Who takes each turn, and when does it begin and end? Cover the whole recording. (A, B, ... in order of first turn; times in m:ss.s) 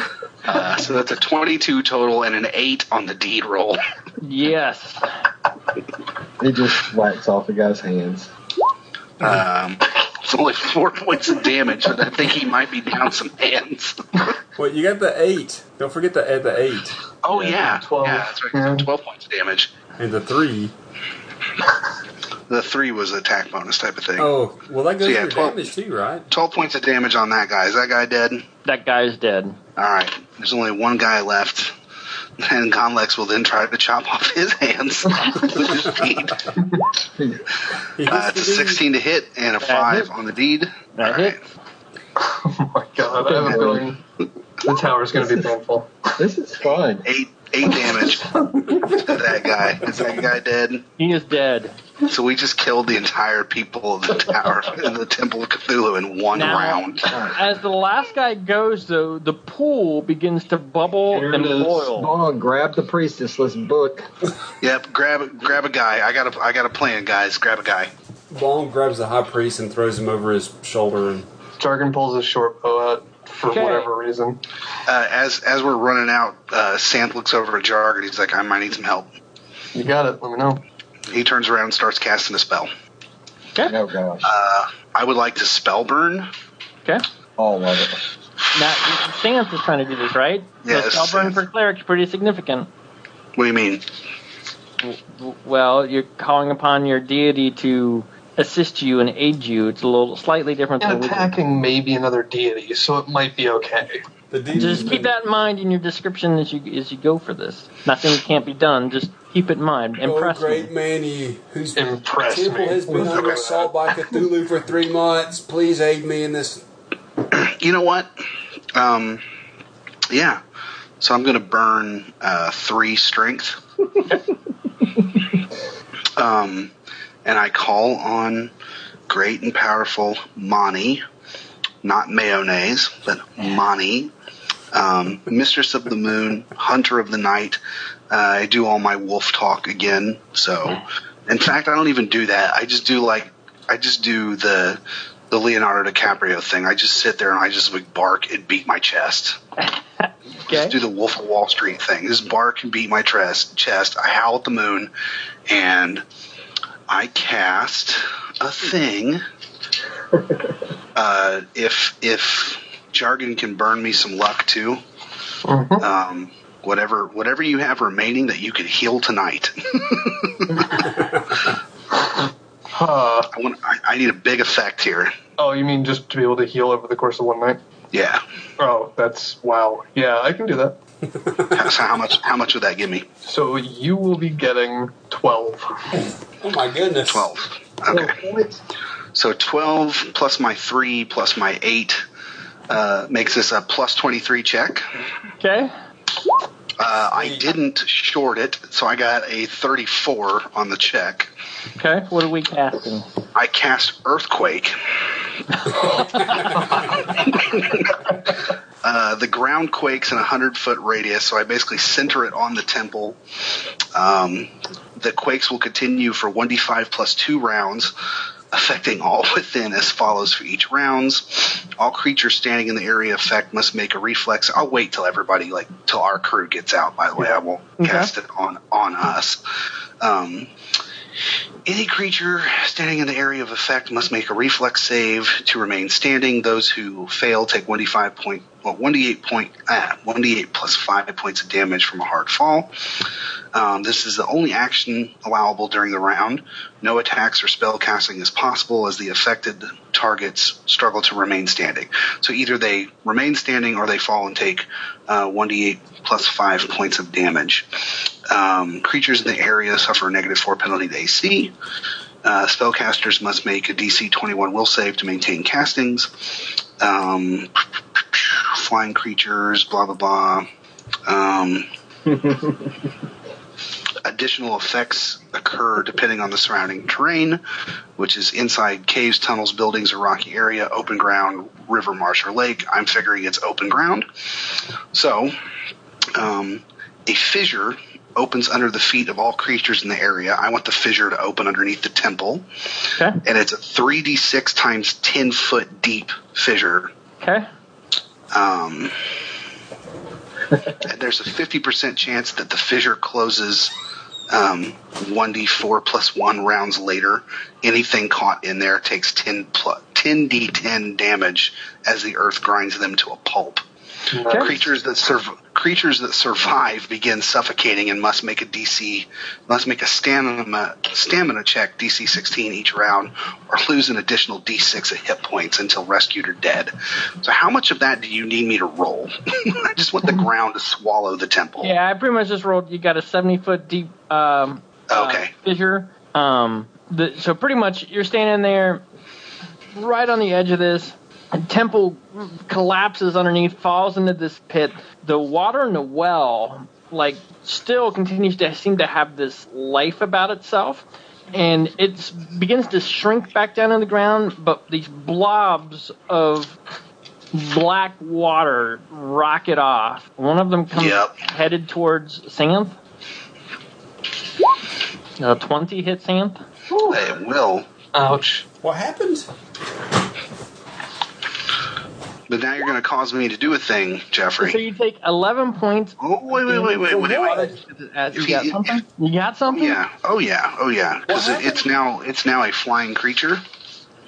0:00.4-0:03.8 A
0:04.2-0:05.1 B
0:06.4-0:08.3 C
0:09.2-0:14.4 A
0:14.6-0:17.0 D
0:17.2-0:19.7 A
0:17.4-0:18.9 E
0:20.0-0:20.7 D
0:22.5-0:24.3 A
0:24.2-0:26.3 D
0:25.0-0:25.7 A
0:26.3-0:28.4 A
0:28.6-0:29.6 B
0:29.8-0:31.7 A
0:32.4-0:36.5 A
0:37.1-0:37.5 C
0:38.0-0:38.8 D
0:38.1-0:41.4 A
0:39.6-0:40.1 B
0:40.9-0:41.4 B
0:42.2-0:44.0 E
0:43.2-0:43.9 C
0:44.6-0:46.0 E
0:45.2-0:45.5 C
0:46.2-0:47.0 C
0:47.0-0:50.8 A
0:47.7-0:49.2 E
0:51.0-0:51.8 B
0:52.1-0:57.1 A
0:56.3-1:02.1 B
0:57.1-0:57.4 C
1:01.1-1:01.9 E
1:01.9-1:04.1 C
1:04.6-1:07.9 A
1:08.3-1:11.2 D
1:11.6-1:14.4 E
1:13.5-1:13.9 B
1:14.8-1:19.1 A
1:19.7-1:20.6 E
1:21.1-1:22.7 A
1:23.6-1:24.3 C
1:24.2-1:26.3 A
1:27.4-1:28.0 C
1:28.5-1:32.7 B
1:30.6-1:31.4 A
1:33.4-1:33.8 A
1:34.8-1:41.3 B
1:40.8-1:44.0 E
1:44.3-1:45.1 D
1:44.5-1:50.7 B
1:50.0-1:56.6 D
1:51.7-1:54.2 E
1:53.1-1:53.4 A
1:57.3-1:58.1 A
1:58.7-1:59.2 A
2:00.1-2:00.4 A
2:01.0-2:03.6 A
2:06.2-2:06.7 A
2:07.2-2:08.5 A
2:09.1-2:11.0 A
2:11.8-2:14.1 A
2:14.7-2:17.6 A
2:18.1-2:29.4 A
2:30.0-2:30.8 B
2:30.5-2:34.9 A
2:35.5-2:36.0 A
2:36.9-2:39.2 A
2:40.9-2:44.8 A
2:45.4-2:45.8 E
2:45.8-2:50.9 A
2:52.7-2:53.3 E
2:53.3-2:55.2 A
2:55.4-2:57.6 E
2:57.9-2:58.2 A
2:58.6-3:00.8 E
3:01.1-3:01.5 D
3:01.5-3:03.1 A
3:03.2-3:05.8 E
3:05.9-3:07.3 D
3:07.0-3:08.2 A
3:07.9-3:08.6 C
3:09.1-3:12.0 A
3:12.7-3:14.9 A
3:15.4-3:15.7 B
3:16.8-3:21.3 A
3:17.1-3:17.5 D
3:21.7-3:23.1 B
3:23.3-3:24.8 A
3:25.9-3:26.5 B
3:27.1-3:27.9 A
3:28.8-3:33.2 A
3:33.9-3:37.9 A
3:38.5-3:49.4 A
3:47.8-3:48.1 B
3:50.0-3:50.5 A
3:51.6-4:02.7 A
4:03.5-4:21.5 A
4:22.2-4:30.5 A
4:31.1-4:31.6 A
4:32.1-4:32.7 C
4:34.0-4:37.4 A
4:38.0-4:45.3 A
4:46.1-4:52.4 A
4:53.2-4:56.9 A
4:57.2-4:57.5 B
4:58.3-4:59.0 A
5:00.8-5:03.7 A
5:04.3-5:13.6 A
5:14.1-5:14.7 E
5:14.3-5:31.7 A
5:31.6-5:38.8 B
5:34.9-5:35.3 A
5:39.7-5:56.6 B
5:57.3-6:02.8 B
6:00.7-6:01.1 A
6:05.2-6:06.4 B
6:06.8-6:07.7 A
6:07.9-6:08.4 E
6:08.6-6:09.3 D
6:12.3-6:14.6 A
6:14.4-6:19.8 B
6:16.0-6:17.5 A
6:18.1-6:18.8 A
6:19.5-6:23.4 A
6:21.1-6:21.6 D